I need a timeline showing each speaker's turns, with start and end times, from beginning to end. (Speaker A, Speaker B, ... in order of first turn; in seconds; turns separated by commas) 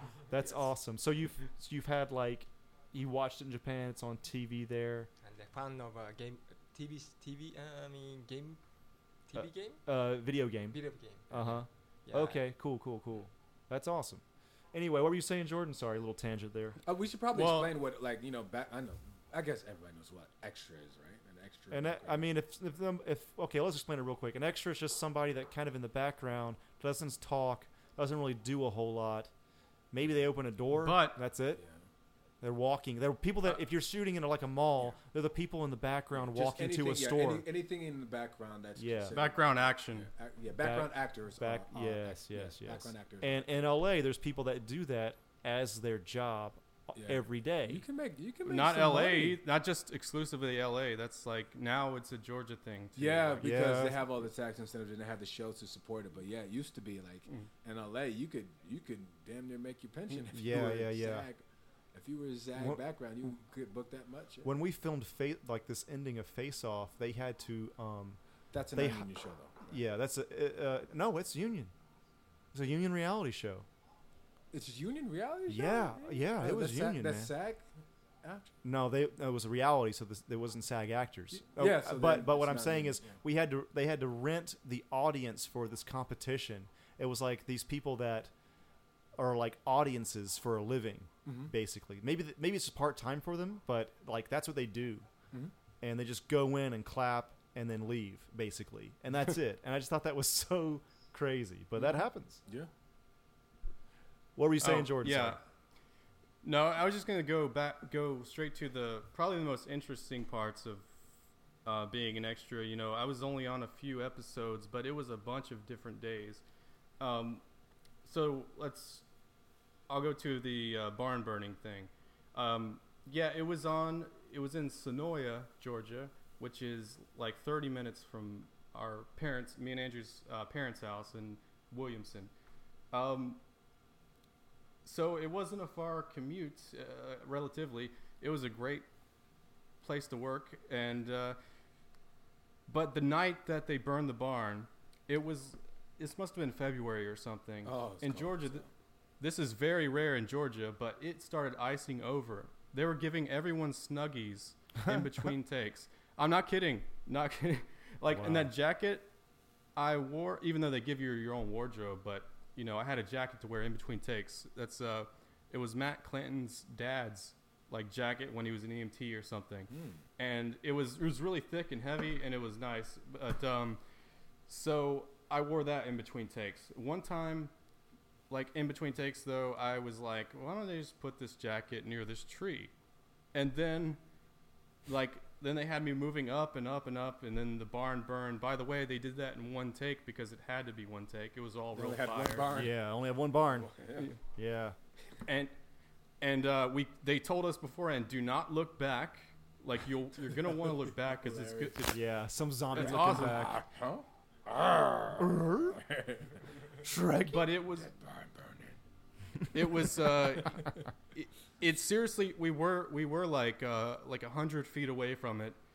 Speaker A: 0.3-5.1, Speaker B: 0.4-0.6, Speaker C: 5.2-8.6, Speaker C: 9.3-9.8, Speaker A: 9.3-16.8, Speaker C: 10.7-12.4, Speaker B: 16.9-22.2, Speaker D: 17.3-17.7, Speaker A: 21.7-29.3, Speaker A: 29.9-31.6, Speaker D: 30.8-31.2, Speaker A: 32.4-37.5, Speaker B: 36.1-43.4, Speaker A: 38.8-39.1, Speaker D: 39.1-40.1, Speaker A: 40.6-47.8, Speaker B: 46.9-49.4, Speaker D: 48.4-53.5, Speaker B: 53.0-61.4, Speaker A: 53.4-54.0, Speaker A: 60.3-61.3, Speaker B: 61.9-64.5, Speaker A: 62.5-62.8, Speaker A: 64.4-68.2, Speaker B: 68.5-69.8, Speaker A: 68.7-69.1, Speaker A: 69.7-71.7, Speaker A: 72.5-73.7, Speaker B: 74.5-77.7, Speaker A: 75.5-77.3, Speaker B: 78.2-78.5, Speaker A: 78.6-88.3, Speaker B: 81.5-83.1, Speaker A: 89.2-95.1, Speaker B: 91.2-91.5, Speaker A: 95.8-102.4, Speaker B: 101.8-102.7, Speaker A: 104.3-105.4, Speaker D: 104.6-105.4, Speaker D: 106.4-110.9, Speaker D: 111.6-116.4, Speaker D: 117.0-117.4, Speaker D: 118.0-119.0, Speaker D: 119.9-132.3, Speaker D: 132.9-133.4, Speaker D: 134.8-138.8, Speaker D: 139.8-141.4, Speaker D: 142.7-148.6, Speaker B: 147.6-148.7, Speaker D: 149.2-159.1, Speaker A: 158.1-158.5, Speaker D: 159.8-173.8, Speaker B: 169.7-170.0, Speaker D: 174.5-177.5, Speaker D: 178.3-182.7, Speaker D: 183.3-184.0, Speaker D: 184.8-192.5, Speaker B: 191.7-192.7, Speaker A: 192.5-193.7, Speaker B: 193.5-194.1, Speaker A: 194.2-194.8, Speaker D: 195.2-195.5, Speaker D: 196.2-202.0, Speaker B: 201.2-201.8, Speaker A: 201.9-203.6, Speaker D: 202.7-203.4, Speaker B: 202.7-206.4, Speaker A: 205.2-205.8, Speaker A: 206.8-207.5, Speaker D: 207.3-207.9, Speaker B: 207.7-208.8, Speaker D: 209.5-215.6